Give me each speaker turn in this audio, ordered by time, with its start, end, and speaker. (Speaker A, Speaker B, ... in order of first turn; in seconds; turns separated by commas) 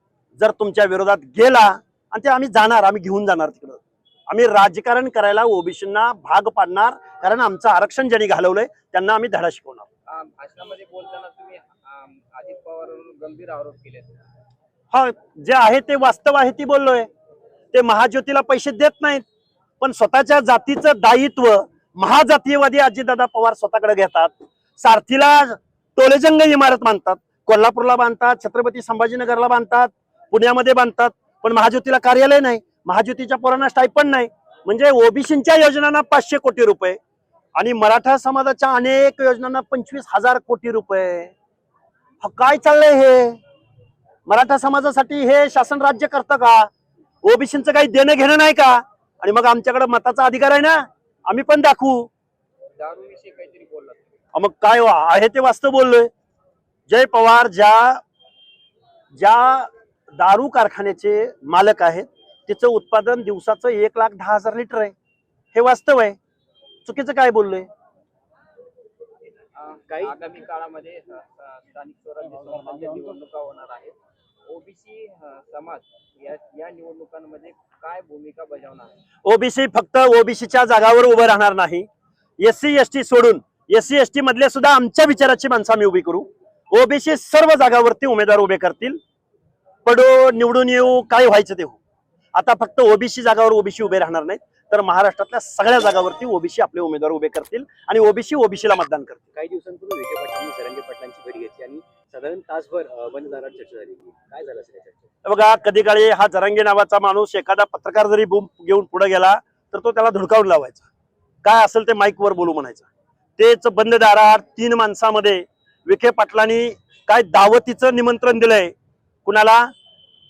Speaker A: 0.4-9.8, Speaker B: 10.1-14.2, Speaker A: 14.9-17.1, Speaker A: 17.7-19.2, Speaker A: 19.8-37.0, Speaker A: 37.5-41.3, Speaker A: 42.2-43.4, Speaker A: 44.3-46.7, Speaker A: 47.2-52.1, Speaker B: 52.8-54.1, Speaker A: 54.3-56.1, Speaker A: 56.9-58.0, Speaker A: 59.1-64.9, Speaker A: 65.5-66.2, Speaker A: 66.8-67.7, Speaker B: 69.5-74.0, Speaker C: 69.9-70.2, Speaker B: 74.5-78.9, Speaker A: 79.2-81.9, Speaker A: 82.4-89.0, Speaker A: 89.8-91.8, Speaker A: 92.3-99.2, Speaker C: 99.3-105.1, Speaker A: 105.2-110.8, Speaker A: 111.4-112.9, Speaker A: 113.4-118.7, Speaker A: 119.2-119.7